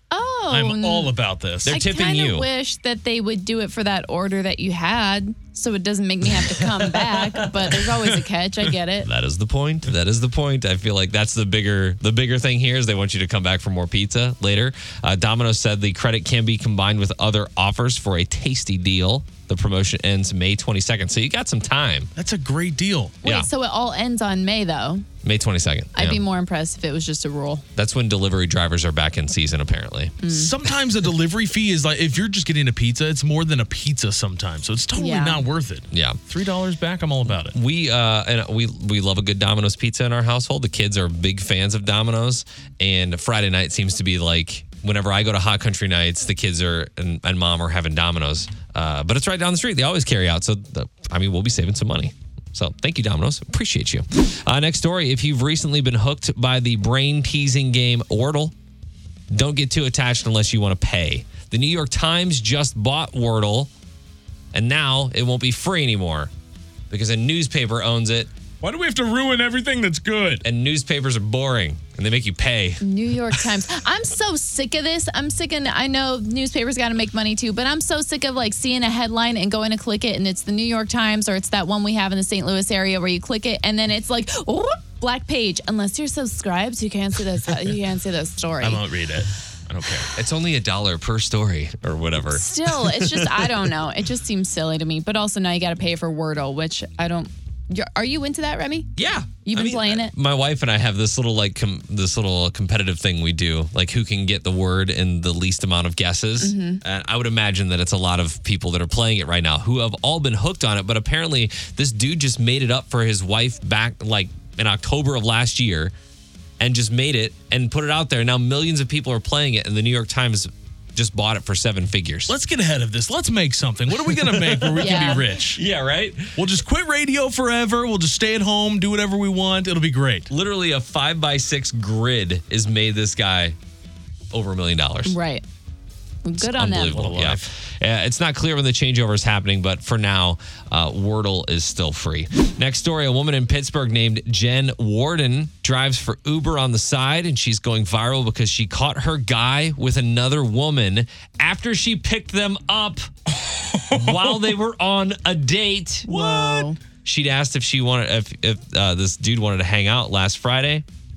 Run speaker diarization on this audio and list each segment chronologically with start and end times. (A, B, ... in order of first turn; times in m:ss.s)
0:00.1-0:01.1 A
0:00.5-0:01.8 B
0:01.6-0:02.5 C
0:01.7-0:09.1 A
0:06.4-0:08.0 C
0:09.0-0:22.1 C
0:22.2-0:23.2 B
0:23.2-0:25.1 A
0:25.2-0:26.2 C
0:25.9-0:27.6 A
0:27.8-0:30.2 C
0:30.2-0:30.5 A
0:30.3-0:37.6 B
0:35.0-0:35.4 A
0:35.9-0:36.2 C
0:37.5-0:58.6 C
0:59.3-1:03.7 C
1:04.5-1:06.3 C
1:06.9-1:08.3 C
1:08.6-1:10.4 B
1:10.4-1:12.8 C
1:12.8-1:28.8 A
1:28.6-1:30.1 B
1:30.1-1:33.7 C
1:32.3-1:38.9 A
1:39.0-1:55.9 C
1:39.5-1:40.1 A
1:46.4-1:46.8 A
1:56.6-2:02.4 C
2:02.3-2:05.6 B
2:04.1-2:06.4 C
2:04.8-2:05.3 A
2:06.4-2:10.3 B
2:10.3-2:13.6 C
2:14.3-2:15.2 C
2:15.0-2:15.4 A
2:16.2-2:17.0 A
2:16.4-2:33.1 C
2:16.8-2:17.5 B
2:33.5-2:34.4 B
2:33.9-2:36.1 C
2:36.1-2:36.8 A
2:36.1-2:36.7 B
2:37.0-2:40.8 C